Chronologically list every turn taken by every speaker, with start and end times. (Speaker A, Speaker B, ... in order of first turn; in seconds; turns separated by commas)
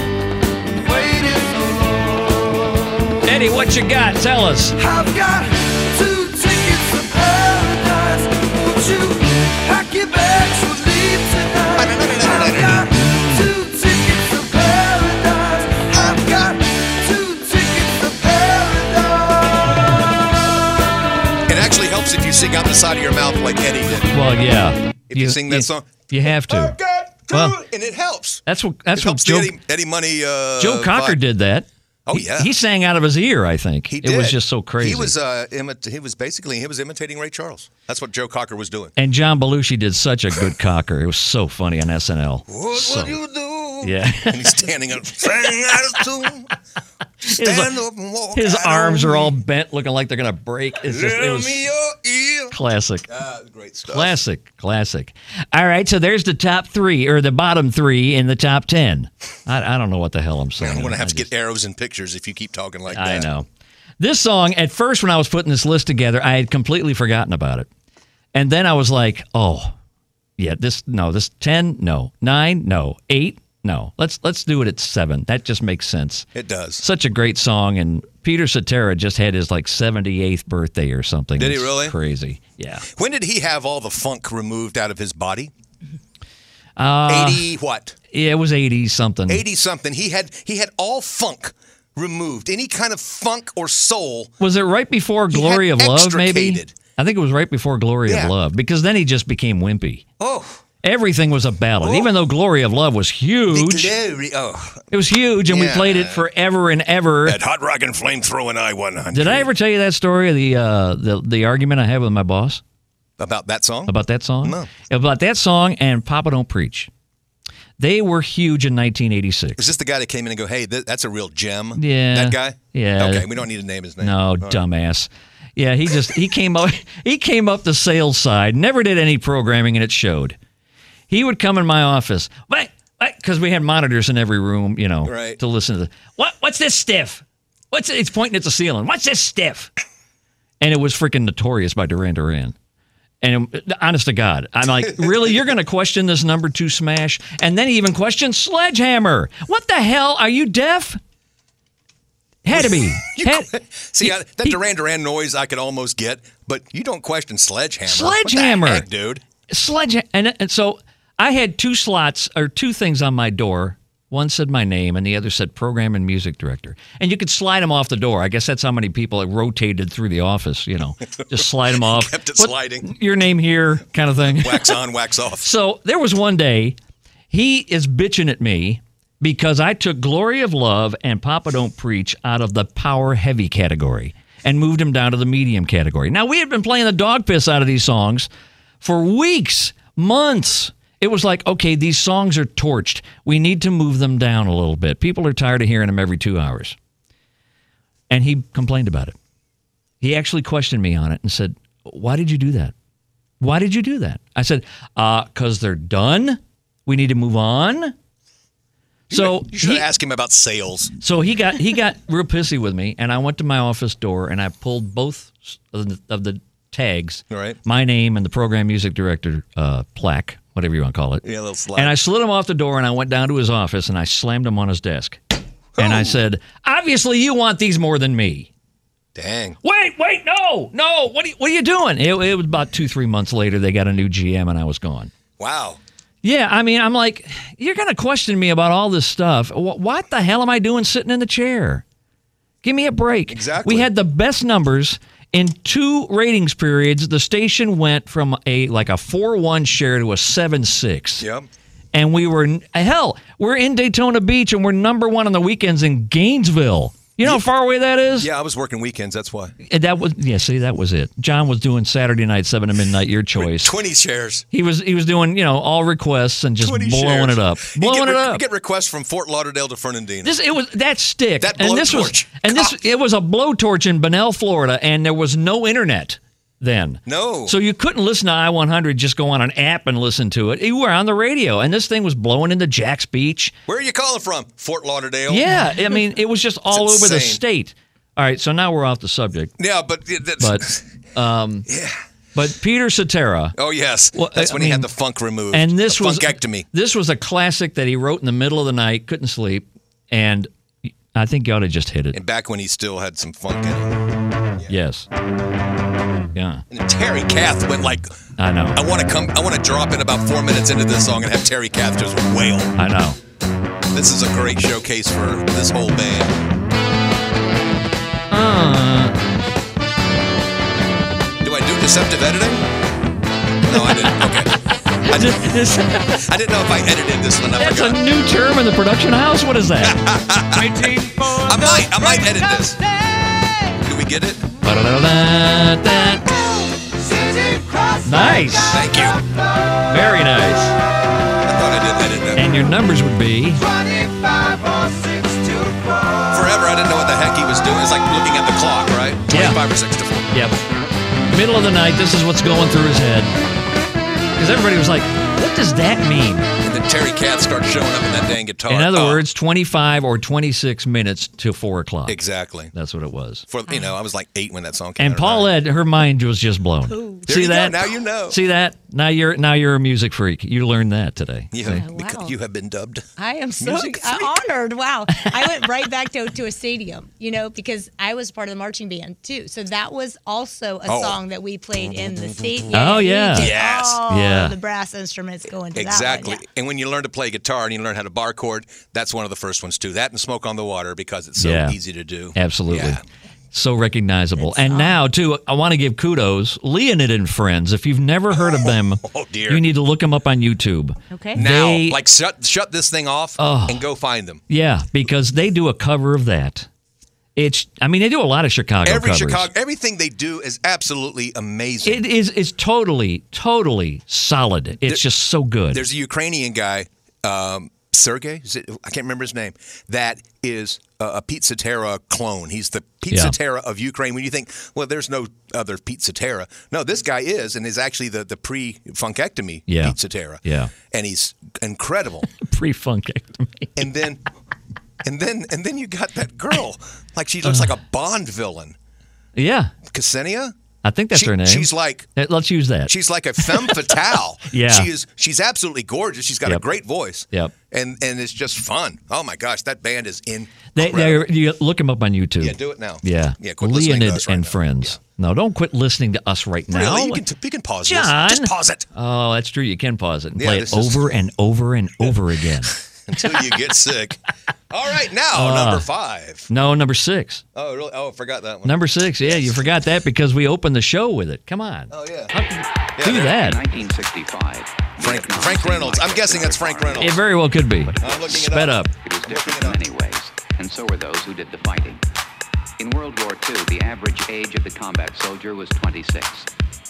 Speaker A: 0.8-3.2, Speaker B: 3.2-4.8, Speaker A: 4.8-20.6, Speaker C: 11.8-12.9, Speaker B: 12.9-13.5, Speaker C: 21.5-24.1, Speaker B: 24.1-26.8, Speaker C: 25.1-28.4, Speaker B: 27.3-27.6, Speaker B: 28.5-29.5, Speaker C: 28.9-31.2, Speaker B: 30.6-35.1, Speaker C: 32.0-32.5, Speaker C: 33.9-38.9, Speaker B: 39.0-43.1, Speaker C: 42.5-46.5, Speaker B: 43.8-44.6, Speaker C: 47.2-49.4, Speaker B: 47.2-47.8, Speaker B: 48.3-51.7, Speaker C: 50.8-52.5, Speaker B: 52.5-53.1, Speaker C: 53.1-54.2, Speaker B: 53.9-61.3, Speaker C: 60.6-63.3, Speaker B: 62.9-63.5, Speaker B: 64.0-67.7, Speaker B: 68.3-69.7, Speaker B: 70.4-76.3, Speaker C: 76.3-76.8, Speaker B: 76.8-82.8, Speaker C: 81.4-82.0, Speaker C: 82.9-85.5, Speaker B: 86.8-87.5, Speaker C: 87.1-88.0, Speaker B: 88.1-89.4, Speaker C: 89.3-94.3, Speaker B: 94.4-100.0, Speaker C: 95.3-96.8, Speaker C: 98.1-98.3, Speaker C: 100.2-100.6, Speaker B: 100.8-103.9, Speaker C: 101.8-102.1, Speaker C: 103.5-104.8, Speaker B: 104.9-107.4, Speaker C: 105.5-106.2, Speaker C: 107.2-109.5, Speaker B: 109.1-112.6, Speaker C: 113.2-114.7, Speaker B: 113.9-116.9, Speaker B: 117.8-119.7, Speaker C: 119.5-124.6, Speaker B: 121.8-123.3, Speaker B: 124.0-130.4, Speaker B: 131.1-139.7, Speaker C: 135.0-135.4, Speaker B: 140.6-142.5, Speaker B: 143.2-151.0, Speaker C: 145.0-145.3, Speaker B: 152.4-154.6, Speaker C: 152.5-159.2, Speaker B: 157.8-158.8, Speaker B: 159.5-174.8, Speaker C: 171.2-172.9, Speaker C: 174.1-175.5, Speaker B: 175.4-176.8, Speaker B: 177.3-188.3, Speaker B: 188.8-196.8, Speaker B: 198.1-199.1, Speaker B: 200.0-202.7, Speaker B: 203.4-207.9, Speaker B: 209.1-209.9, Speaker C: 209.1-210.9, Speaker B: 211.0-225.2, Speaker C: 217.3-217.6, Speaker C: 221.2-221.9, Speaker C: 225.8-226.2, Speaker B: 225.8-228.5, Speaker C: 229.1-229.6, Speaker B: 229.6-235.1, Speaker C: 235.4-235.8, Speaker B: 236.2-241.8, Speaker B: 242.6-251.2, Speaker C: 243.3-243.9, Speaker C: 251.2-251.5, Speaker B: 251.9-258.3, Speaker C: 258.2-259.5, Speaker B: 259.6-263.7, Speaker C: 263.3-264.4, Speaker B: 264.5-268.4, Speaker C: 266.6-270.4, Speaker B: 270.2-283.5, Speaker C: 271.4-272.8, Speaker C: 277.1-277.6, Speaker C: 283.7-285.7, Speaker B: 285.3-289.5, Speaker C: 286.7-287.4, Speaker C: 289.6-290.8, Speaker B: 290.4-291.7, Speaker C: 291.6-292.0, Speaker B: 292.3-293.6, Speaker C: 293.6-296.7, Speaker B: 294.1-294.9, Speaker B: 295.5-300.5, Speaker B: 301.1-302.2, Speaker C: 302.1-304.0, Speaker B: 304.7-305.1, Speaker B: 306.3-306.6, Speaker C: 306.7-308.2, Speaker B: 308.4-308.8, Speaker C: 308.7-312.7, Speaker B: 312.8-313.2, Speaker C: 313.9-316.4, Speaker B: 318.3-319.1, Speaker C: 321.4-322.7, Speaker C: 323.6-328.0, Speaker B: 323.7-324.3, Speaker B: 325.0-326.2, Speaker B: 327.6-330.0, Speaker C: 329.8-330.8, Speaker A: 330.5-333.8, Speaker C: 331.4-332.8, Speaker C: 333.8-334.4, Speaker B: 334.6-336.3, Speaker A: 336.1-341.3, Speaker B: 338.0-338.8, Speaker C: 338.7-339.2, Speaker B: 339.9-340.8, Speaker C: 341.4-342.6, Speaker B: 342.4-343.6, Speaker A: 343.6-346.6, Speaker C: 346.3-350.3, Speaker B: 349.3-349.6, Speaker B: 350.3-350.6, Speaker B: 351.3-353.3, Speaker B: 354.4-356.5, Speaker C: 356.6-359.2, Speaker B: 358.7-362.2, Speaker C: 362.1-362.7, Speaker B: 362.7-363.5, Speaker C: 363.5-365.5, Speaker B: 365.0-371.8, Speaker D: 366.9-367.3, Speaker C: 367.3-368.4, Speaker C: 371.5-373.0, Speaker D: 371.7-372.3, Speaker D: 373.2-386.4, Speaker C: 373.6-374.3, Speaker B: 375.1-375.4, Speaker C: 380.9-381.2, Speaker B: 382.7-384.5, Speaker C: 383.3-384.0, Speaker C: 385.7-393.0, Speaker B: 391.4-391.8, Speaker B: 392.3-393.0, Speaker B: 393.5-402.0, Speaker D: 394.4-395.0, Speaker C: 398.3-399.6, Speaker D: 401.1-401.4, Speaker C: 401.3-404.4, Speaker B: 403.4-403.8, Speaker B: 404.5-406.7, Speaker B: 407.4-409.5, Speaker C: 408.8-412.0, Speaker B: 411.8-415.8, Speaker C: 415.7-432.3, Speaker B: 423.1-423.3, Speaker B: 429.7-430.7, Speaker B: 432.4-433.8, Speaker C: 433.8-434.2, Speaker C: 435.0-438.8, Speaker B: 437.4-437.7, Speaker B: 439.4-439.7, Speaker C: 439.9-440.5, Speaker B: 440.8-444.0, Speaker C: 441.1-442.1, Speaker C: 442.9-451.3, Speaker B: 444.5-444.9, Speaker B: 450.7-457.2, Speaker C: 452.4-455.0, Speaker C: 456.7-458.9, Speaker B: 457.9-462.8, Speaker C: 460.4-461.2, Speaker C: 462.6-466.5, Speaker B: 465.3-465.9, Speaker B: 466.5-467.4, Speaker C: 467.5-469.6, Speaker B: 468.6-473.6, Speaker C: 471.9-472.3, Speaker C: 473.0-473.5, Speaker E: 473.1-478.4, Speaker C: 475.0-477.2, Speaker B: 477.0-478.9, Speaker C: 478.0-479.8, Speaker E: 479.0-482.0, Speaker E: 482.8-486.5